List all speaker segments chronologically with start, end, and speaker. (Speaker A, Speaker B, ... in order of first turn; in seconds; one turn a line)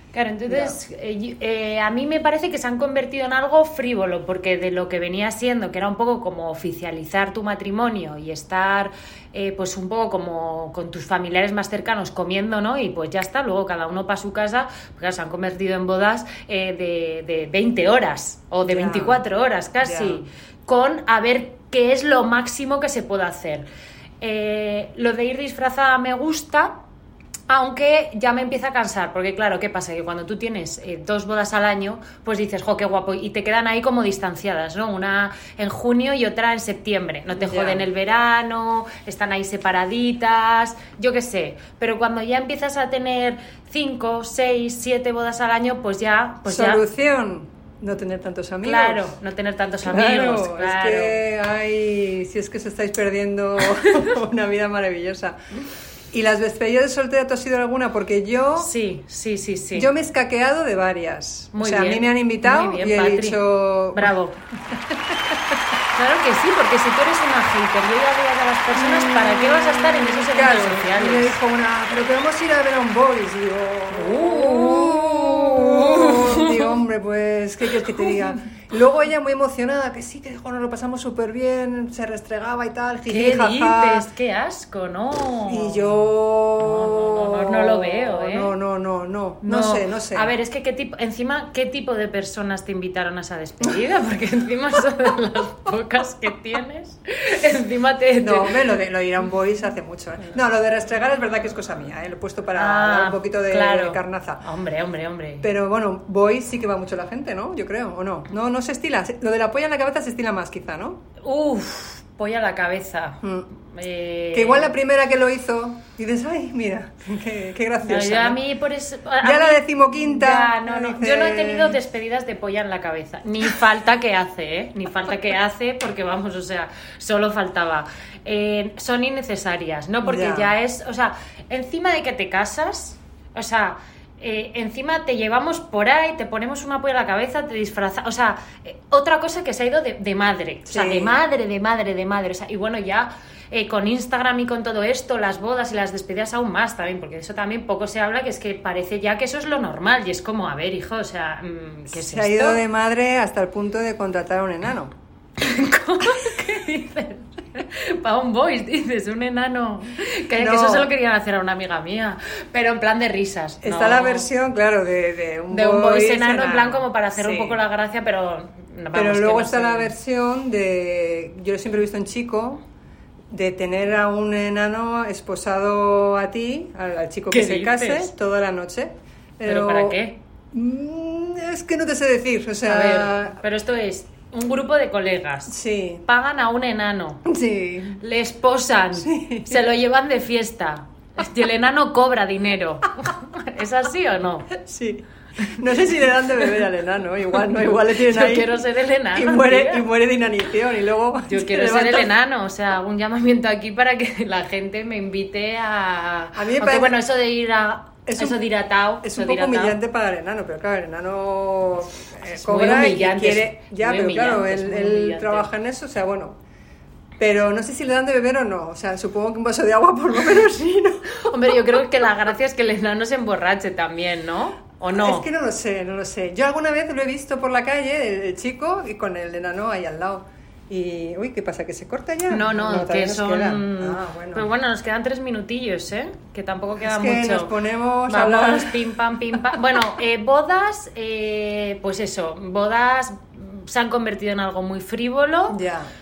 Speaker A: 0.1-23.6
Speaker B: 0.5-0.8
Speaker B: 18.6-19.2
Speaker B: 19.8-20.2
Speaker A: 24.2-26.8
Speaker A: 27.5-46.8
Speaker B: 37.4-37.9
Speaker B: 46.5-49.1
Speaker A: 48.6-51.2
Speaker B: 49.8-55.4
Speaker B: 56.1-58.7
Speaker A: 58.6-59.9
Speaker B: 59.8-64.1
Speaker A: 61.5-63.4
Speaker A: 63.9-64.4
Speaker A: 65.9-71.4
Speaker B: 70.1-84.0
Speaker A: 73.9-76.7
Speaker A: 83.1-86.0
Speaker B: 85.5-90.3
Speaker A: 86.6-88.5
Speaker A: 89.4-98.5
Speaker B: 98.2-104.4
Speaker A: 102.5-105.5
Speaker B: 105.4-111.0
Speaker A: 111.2-114.7
Speaker B: 113.2-113.5
Speaker B: 114.3-118.4
Speaker A: 117.8-152.6
Speaker B: 119.2-121.8
Speaker B: 130.0-130.5
Speaker B: 140.7-141.2
Speaker B: 151.9-154.9
Speaker A: 155.4-164.3
Speaker B: 160.3-160.9
Speaker B: 163.6-167.6
Speaker A: 165.5-169.9
Speaker B: 168.9-172.6
Speaker B: 173.3-180.0
Speaker A: 177.3-178.1
Speaker A: 179.4-180.2
Speaker B: 180.5-183.4
Speaker A: 182.6-187.2
Speaker B: 185.5-186.0
Speaker B: 187.2-188.0
Speaker A: 188.0-194.5
Speaker B: 189.0-189.6
Speaker B: 194.5-198.6
Speaker A: 197.9-199.9
Speaker B: 199.1-202.1
Speaker A: 201.3-209.8
Speaker B: 206.3-207.0
Speaker B: 208.1-208.4
Speaker B: 209.0-216.4
Speaker A: 212.3-215.5
Speaker B: 217.2-221.8
Speaker A: 221.2-225.2
Speaker B: 224.9-234.5
Speaker A: 232.3-237.5
Speaker B: 236.8-239.8
Speaker A: 238.1-245.6
Speaker B: 245.5-245.9